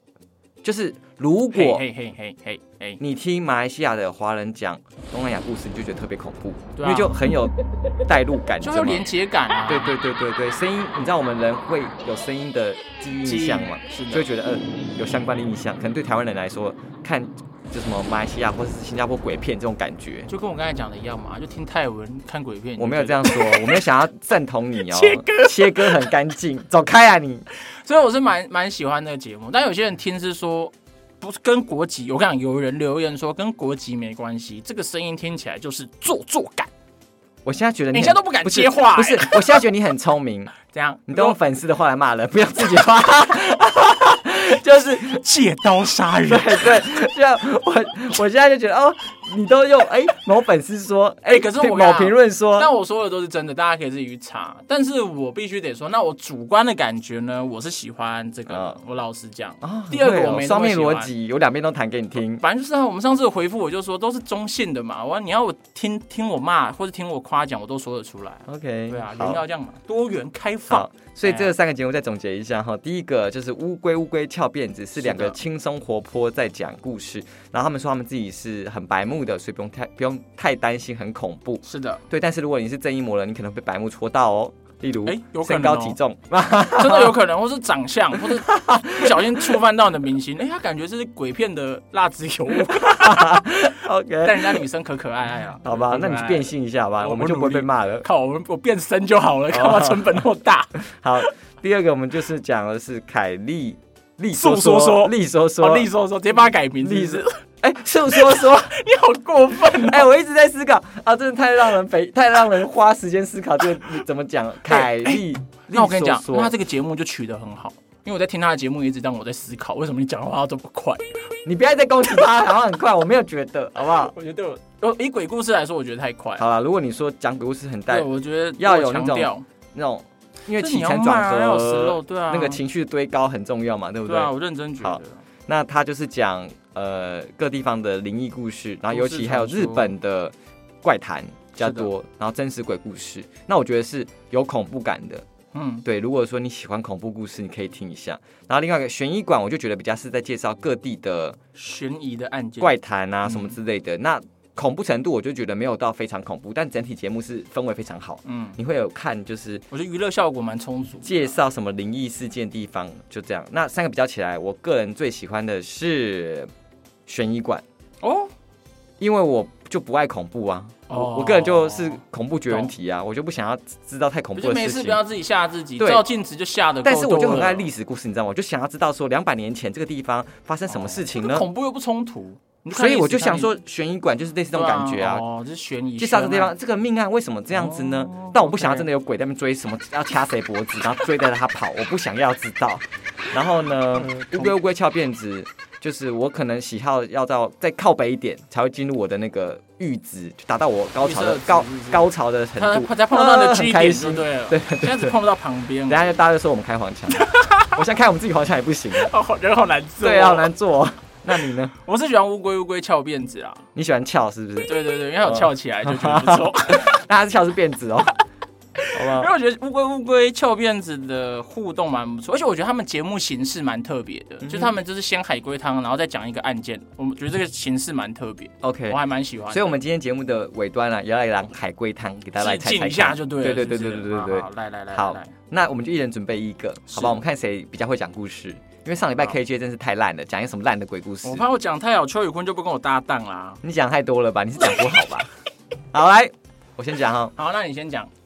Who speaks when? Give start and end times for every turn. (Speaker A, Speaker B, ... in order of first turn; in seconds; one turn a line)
Speaker A: 0.6-1.8
Speaker B: 1.5-3.0
Speaker A: 3.0-9.1
Speaker B: 6.7-7.3
Speaker B: 8.6-9.9
Speaker A: 9.7-20.3
Speaker B: 13.2-14.3
Speaker B: 20.3-23.8
Speaker A: 22.8-27.4
Speaker B: 24.9-26.1
Speaker B: 27.7-36.7
Speaker A: 37.4-40.5
Speaker B: 37.9-39.6
Speaker B: 40.6-41.4
Speaker A: 41.1-45.2
Speaker B: 45.0-46.8
Speaker A: 46.3-52.7
Speaker B: 51.2-61.1
Speaker A: 58.5-58.8
Speaker A: 59.6-62.4
Speaker B: 62.4-71.5
Speaker A: 68.5-69.4
Speaker A: 70.7-87.2
Speaker B: 75.0-75.4
Speaker B: 81.6-82.0
Speaker B: 85.0-86.0
Speaker B: 86.8-93.5
Speaker A: 88.1-89.6
Speaker A: 92.5-94.6
Speaker B: 94.2-101.3
Speaker A: 95.6-98.0
Speaker A: 99.5-100.2
Speaker A: 100.8-105.9
Speaker B: 104.3-107.3
Speaker A: 106.8-108.7
Speaker B: 108.1-110.1
Speaker A: 109.7-116.5
Speaker B: 114.7-121.2
Speaker A: 121.4-124.1
Speaker B: 124.0-126.4
Speaker A: 126.4-145.2
Speaker B: 127.9-129.4
Speaker B: 130.6-132.6
Speaker B: 134.0-135.2
Speaker B: 138.9-139.9
Speaker B: 141.6-141.9
Speaker B: 145.5-145.8
Speaker A: 145.8-151.4
Speaker B: 151.5-153.6
Speaker A: 152.6-159.6
Speaker B: 158.2-158.6
Speaker B: 159.7-161.4
Speaker A: 161.0-166.5
Speaker A: 167.1-167.6
Speaker B: 168.0-168.3
Speaker A: 169.0-175.0
Speaker B: 170.9-172.7
Speaker B: 174.3-177.7
Speaker A: 175.8-176.1
Speaker A: 176.8-181.5
Speaker B: 180.7-183.5
Speaker A: 182.7-185.2
Speaker B: 184.5-186.5
Speaker A: 186.0-205.1
Speaker B: 187.5-188.9
Speaker B: 193.9-194.5
Speaker B: 201.0-206.2
Speaker A: 205.9-209.1
Speaker B: 207.1-207.8
Speaker B: 208.9-210.5
Speaker A: 210.0-211.7
Speaker B: 211.7-213.6
Speaker A: 213.7-218.1
Speaker B: 214.7-216.9
Speaker B: 218.8-229.8
Speaker A: 218.9-219.3
Speaker A: 224.4-224.7
Speaker A: 228.6-241.4
Speaker B: 232.4-235.3
Speaker B: 236.9-237.2
Speaker B: 241.2-243.6
Speaker A: 243.6-245.3
Speaker A: 245.9-247.3
Speaker B: 247.3-248.1